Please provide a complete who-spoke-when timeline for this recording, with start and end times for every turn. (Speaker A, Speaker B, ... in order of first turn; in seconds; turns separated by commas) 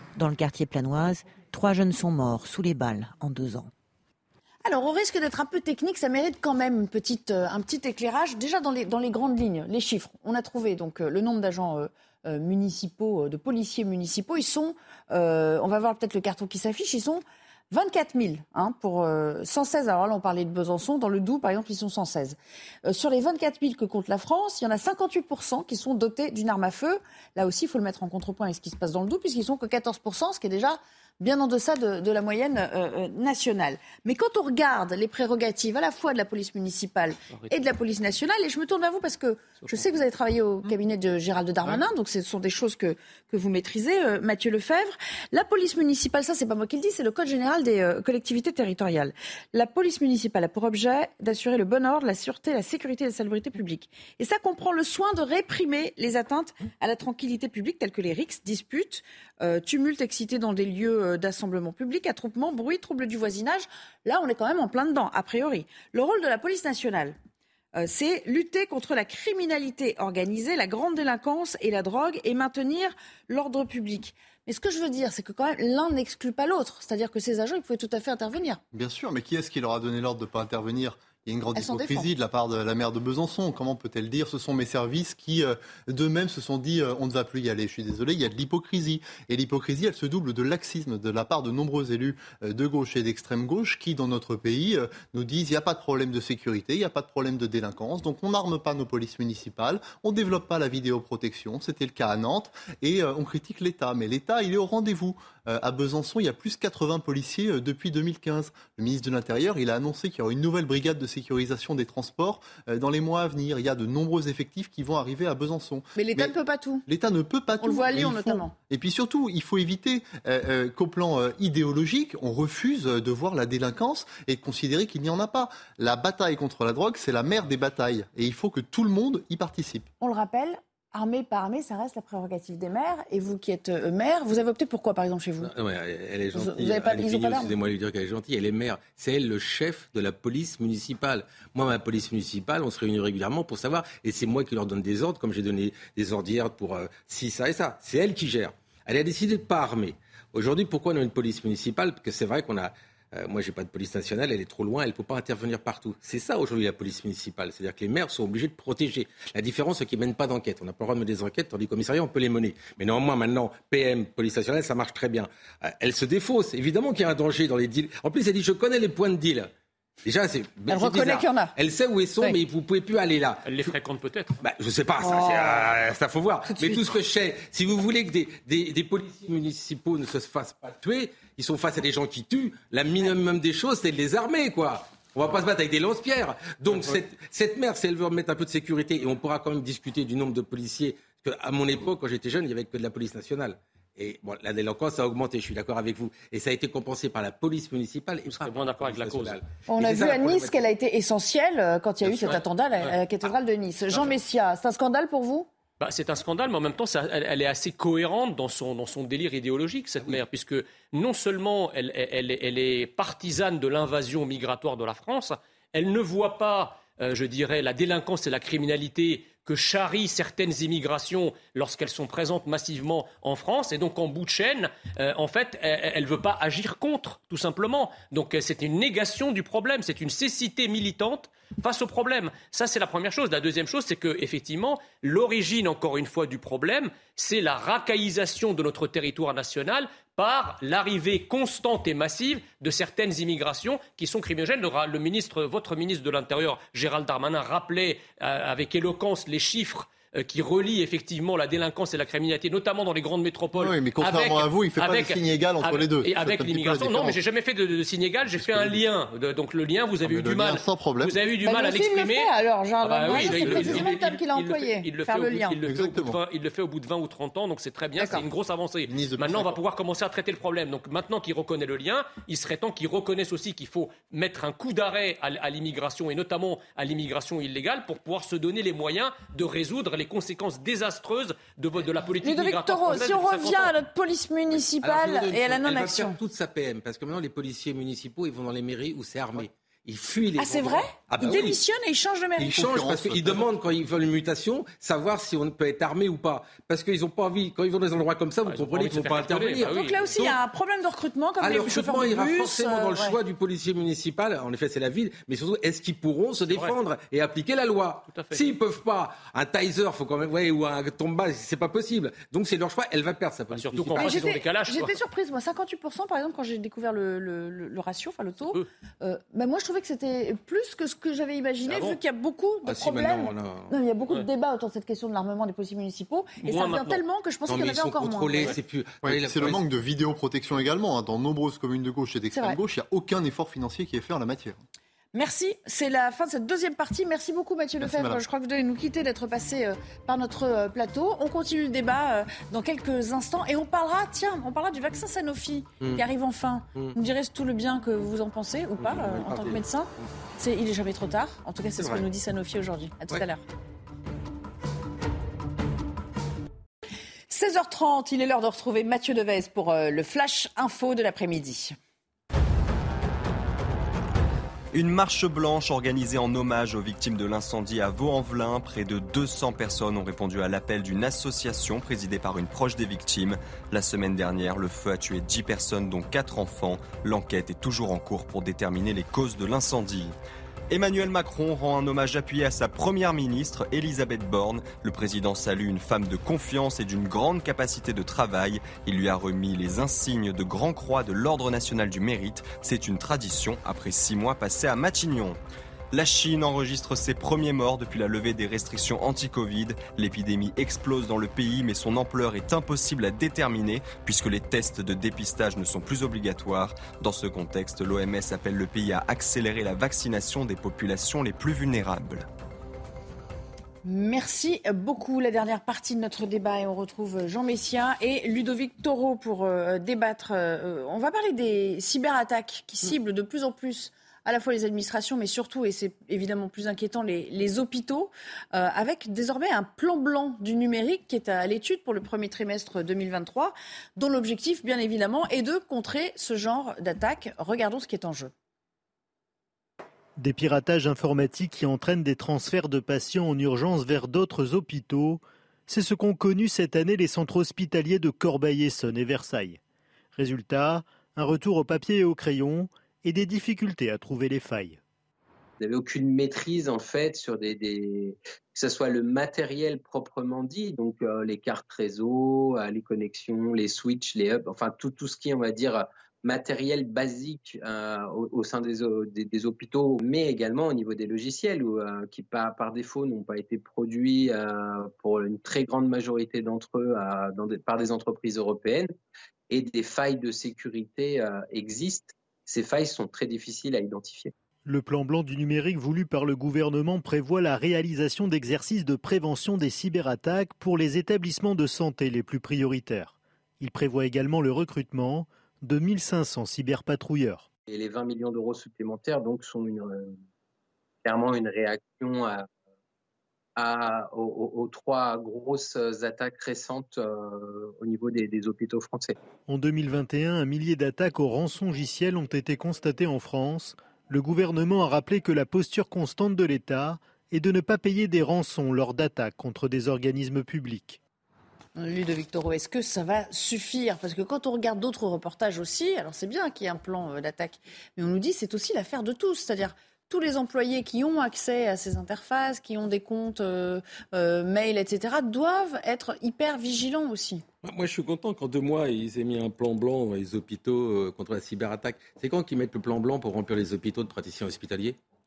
Speaker A: 0.1-3.7, Speaker B: 4.6-67.2, Speaker C: 39.6-39.8, Speaker B: 67.8-78.6, Speaker D: 78.7-116.3, Speaker B: 81.5-82.1, Speaker B: 116.0-116.8, Speaker D: 116.9-129.9, Speaker B: 117.6-118.5, Speaker B: 130.0-135.5, Speaker E: 135.4-169.5, Speaker B: 136.3-137.5, Speaker E: 170.0-173.7, Speaker B: 170.7-171.5, Speaker C: 173.4-174.4, Speaker E: 174.4-200.6, Speaker B: 175.0-175.7, Speaker B: 176.5-176.8, Speaker C: 198.2-199.4, Speaker B: 199.7-205.5, Speaker E: 202.0-202.4, Speaker C: 202.2-202.9, Speaker C: 205.8-262.3, Speaker D: 253.6-257.2, Speaker D: 258.4-258.8, Speaker D: 260.0-261.1, Speaker B: 261.4-265.6, Speaker C: 262.8-283.7, Speaker D: 263.1-263.9, Speaker D: 265.6-266.2, Speaker B: 268.0-268.2, Speaker D: 268.9-269.6, Speaker B: 282.2-286.2, Speaker E: 284.5-291.6, Speaker B: 290.4-292.9, Speaker E: 292.4-300.4, Speaker D: 292.6-293.4, Speaker C: 298.5-300.1, Speaker B: 299.6-303.2, Speaker E: 301.4-314.3, Speaker C: 306.5-306.8, Speaker C: 308.0-308.4, Speaker C: 313.5-314.9, Speaker B: 313.9-328.6, Speaker C: 318.4-318.7, Speaker C: 321.7-322.0, Speaker E: 322.6-323.7, Speaker C: 326.4-327.0, Speaker E: 327.5-329.6, Speaker D: 329.0-334.6, Speaker B: 332.3-332.6, Speaker B: 335.1-353.4, Speaker D: 337.8-338.2, Speaker E: 348.8-349.6, Speaker E: 351.8-352.1, Speaker B: 357.3-361.7, Speaker F: 364.7-380.1, Speaker F: 380.7-395.4, Speaker F: 395.9-412.2, Speaker B: 413.8-438.3, Speaker G: 440.2-449.6, Speaker G: 450.1-454.8, Speaker H: 455.6-478.9, Speaker H: 479.5-484.3, Speaker G: 484.6-497.5, Speaker H: 497.7-500.2, Speaker H: 501.0-502.4, Speaker H: 503.6-509.1, Speaker G: 509.5-521.0, Speaker B: 521.8-537.4, Speaker E: 537.6-545.0